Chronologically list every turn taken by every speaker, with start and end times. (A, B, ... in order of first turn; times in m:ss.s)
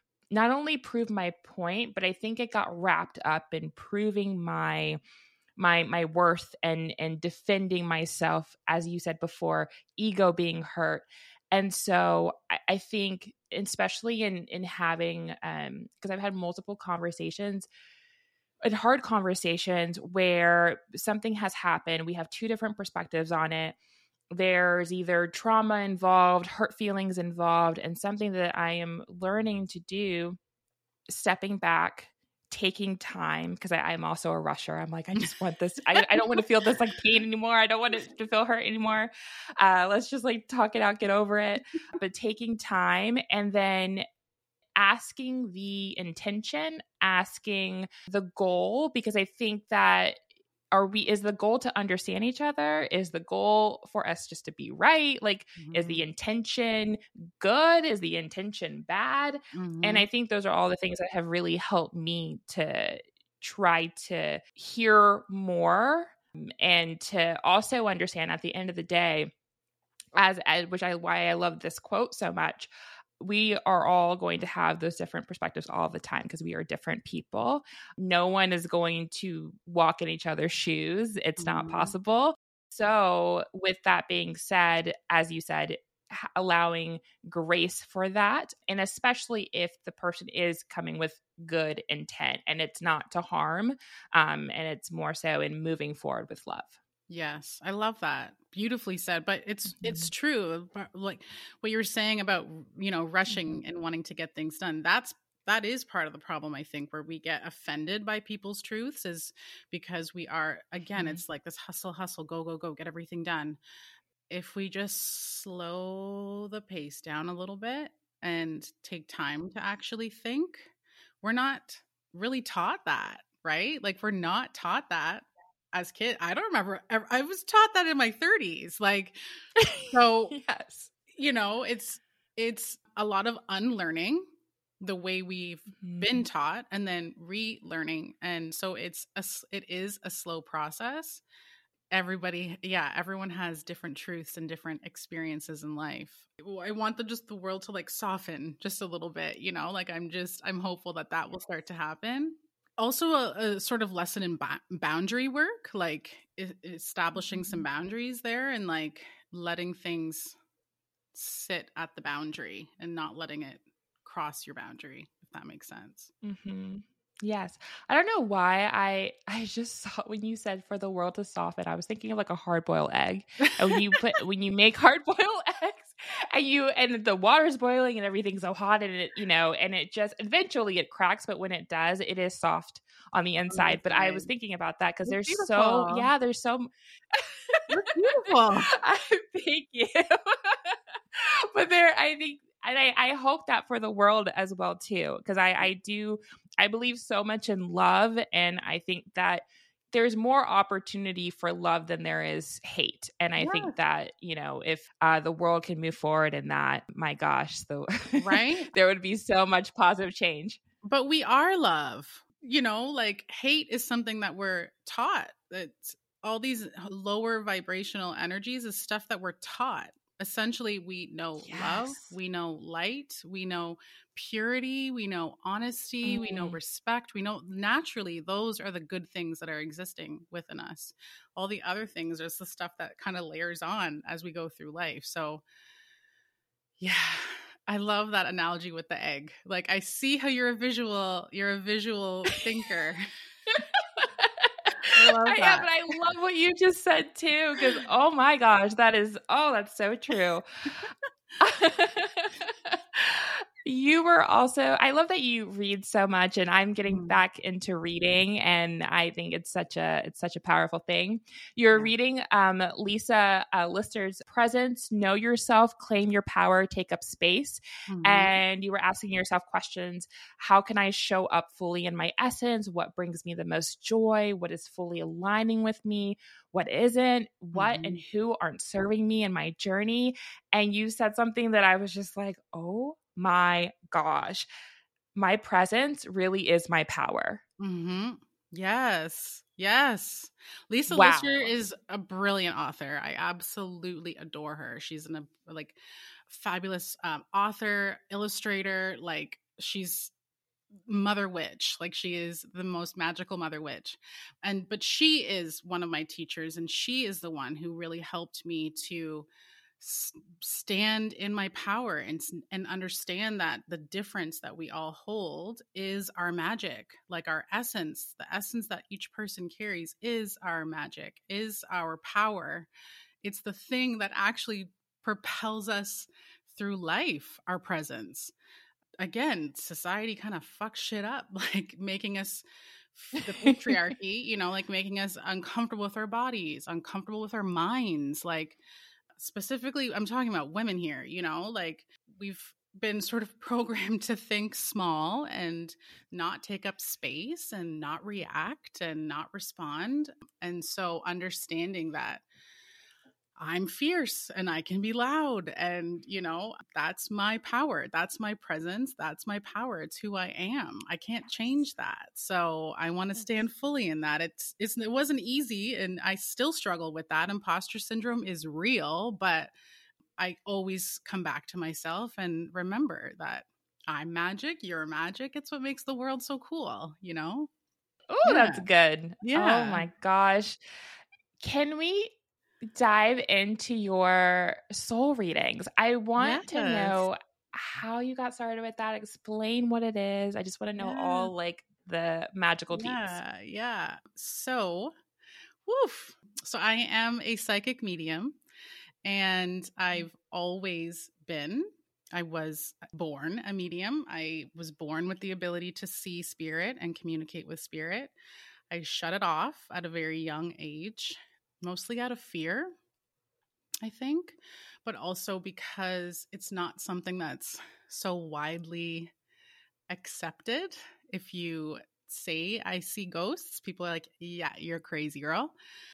0:00.3-0:05.0 A
0:05.6-0:17.7 A
0:18.6-0:23.8 A
0:24.3-0:30.4 A
0:31.1-0:44.0 A
0:36.0-0:36.4 B
0:44.8-0:50.2 A
0:50.7-1:09.3 A
0:55.6-0:56.0 B
0:59.5-1:00.1 B
1:10.2-1:36.7 A
1:21.4-1:21.9 B
1:37.1-1:53.6 B
1:39.7-1:40.1 A
1:43.3-1:43.6 A
1:51.0-1:51.2 A
1:54.3-2:00.7 B
2:01.2-2:09.2 B
2:09.6-2:10.9 A
2:09.8-2:10.4 B
2:11.1-2:14.2 B
2:14.8-2:21.2 B
2:15.8-2:16.2 A
2:21.9-2:40.4 B
2:37.2-2:37.7 A
2:41.1-2:46.1 B
2:46.2-3:07.7 A
3:03.5-3:04.3 B
3:05.1-3:06.1 B
3:07.7-3:08.7 B
3:08.7-3:30.6 A
3:23.4-3:23.8 B
3:28.2-3:28.7 B
3:30.8-3:55.4 B
3:41.4-3:42.1 A
3:46.0-3:46.6 A
3:56.8-4:03.1 B
4:03.5-4:10.4 A
4:05.0-4:05.7 B
4:11.4-4:44.5 A
4:16.9-4:17.2 B
4:27.9-4:28.4 B
4:37.5-4:38.0 B
4:45.2-4:47.4 A
4:47.6-5:00.1 B
4:50.9-4:51.5 A
5:00.8-5:09.3 B
5:09.8-5:22.7 B
5:23.2-5:28.3 B
5:29.0-5:38.6 B
5:33.4-5:33.8 A
5:39.2-5:52.2 B
5:53.4-6:09.5 B
6:10.2-6:17.5 B
6:18.1-6:20.6 A
6:18.2-6:18.7 B
6:19.2-6:19.9 B
6:21.4-6:22.1 A
6:22.6-6:33.2 A
6:26.2-6:27.1 B
6:30.8-6:31.3 B
6:32.7-6:34.9 B
6:35.7-6:38.4 B
6:39.0-6:48.1 B
6:48.7-6:52.7 B
6:53.8-6:59.1 B
6:59.9-7:05.5 B